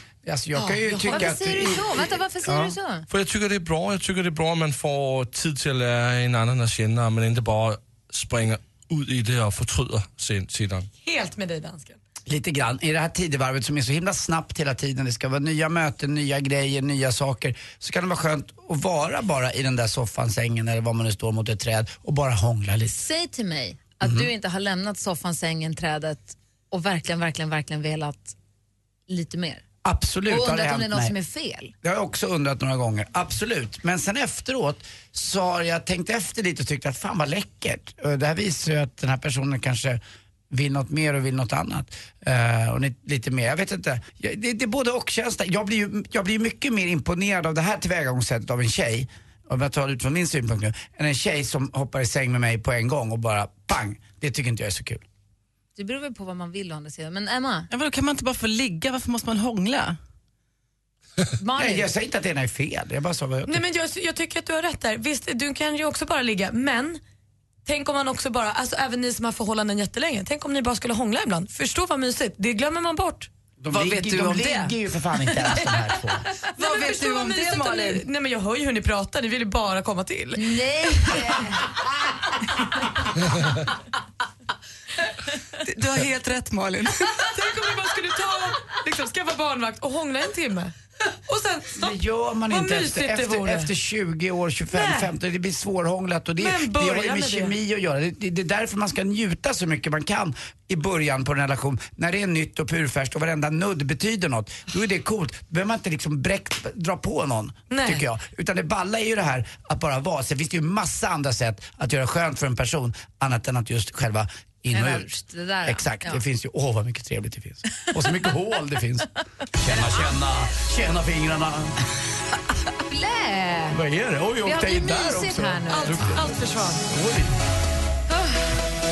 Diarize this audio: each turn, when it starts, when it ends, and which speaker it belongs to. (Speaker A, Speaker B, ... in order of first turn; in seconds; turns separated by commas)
Speaker A: 0.2-2.7, Speaker B: 0.6-1.5, Speaker C: 0.9-3.0, Speaker D: 3.1-10.9, Speaker B: 11.0-12.0, Speaker A: 12.3-23.1, Speaker C: 22.9-28.4, Speaker A: 24.0-24.3, Speaker C: 29.1-29.6, Speaker A: 29.8-31.1, Speaker C: 30.3-31.7, Speaker A: 31.8-40.0, Speaker A: 40.5-55.0, Speaker C: 55.8-57.7, Speaker E: 57.7-60.0, Speaker C: 61.4-61.9, Speaker A: 61.5-63.6, Speaker B: 63.5-67.0, Speaker B: 67.7-73.3, Speaker A: 73.6-76.2, Speaker E: 73.7-74.7, Speaker B: 76.4-81.2, Speaker E: 76.5-78.0, Speaker C: 80.3-81.7, Speaker E: 85.6-87.3, Speaker B: 87.3-90.7, Speaker B: 91.3-91.9, Speaker A: 91.8-115.1, Speaker B: 92.5-93.7, Speaker B: 94.7-95.1, Speaker B: 96.4-97.5, Speaker B: 107.7-108.0, Speaker C: 114.7-116.2, Speaker A: 115.6-121.7, Speaker C: 122.9-123.8, Speaker A: 123.7-126.4, Speaker C: 124.4-126.1, Speaker B: 125.7-126.9, Speaker A: 126.9-127.3, Speaker C: 128.1-128.5